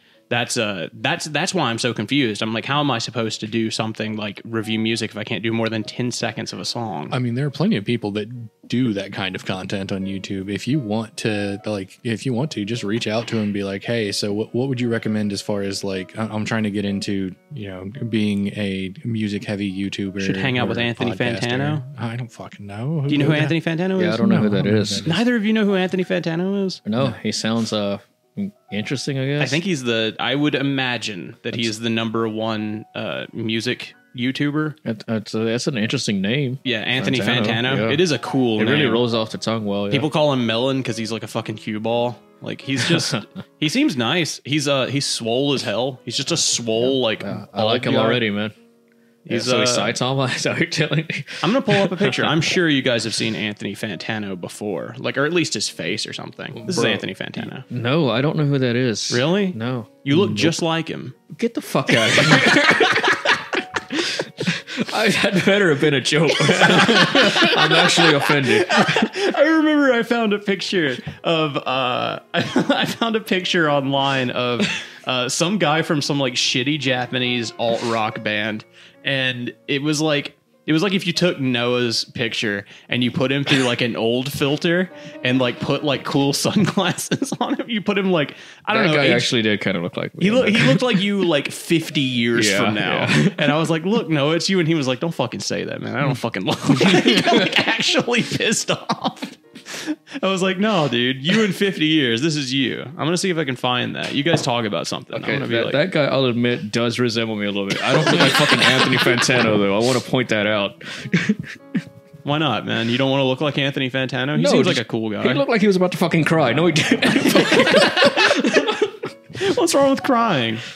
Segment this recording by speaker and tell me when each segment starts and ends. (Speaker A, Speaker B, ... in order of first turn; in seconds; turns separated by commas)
Speaker A: 0.3-7.2, Speaker B: 7.1-23.6, Speaker A: 20.2-21.9, Speaker A: 23.1-24.3, Speaker C: 24.0-25.2, Speaker B: 24.2-25.2, Speaker A: 25.0-26.8, Speaker C: 26.9-29.6, Speaker A: 29.4-34.8, Speaker C: 34.9-40.1, Speaker A: 36.6-39.0, Speaker A: 39.9-48.2, Speaker C: 47.2-48.5, Speaker A: 49.3-50.0, Speaker C: 49.3-52.5, Speaker A: 51.4-57.6, Speaker C: 56.6-57.0, Speaker C: 57.7-59.9, Speaker A: 59.1-61.1, Speaker B: 60.1-60.5, Speaker C: 61.3-63.4, Speaker A: 61.9-63.4, Speaker C: 63.9-69.1, Speaker A: 66.6-89.3, Speaker C: 88.7-91.1, Speaker A: 90.2-105.8, Speaker C: 92.3-93.6, Speaker C: 105.1-111.6, Speaker A: 112.2-115.4, Speaker C: 114.4-119.1, Speaker A: 117.3-118.5, Speaker A: 119.4-120.6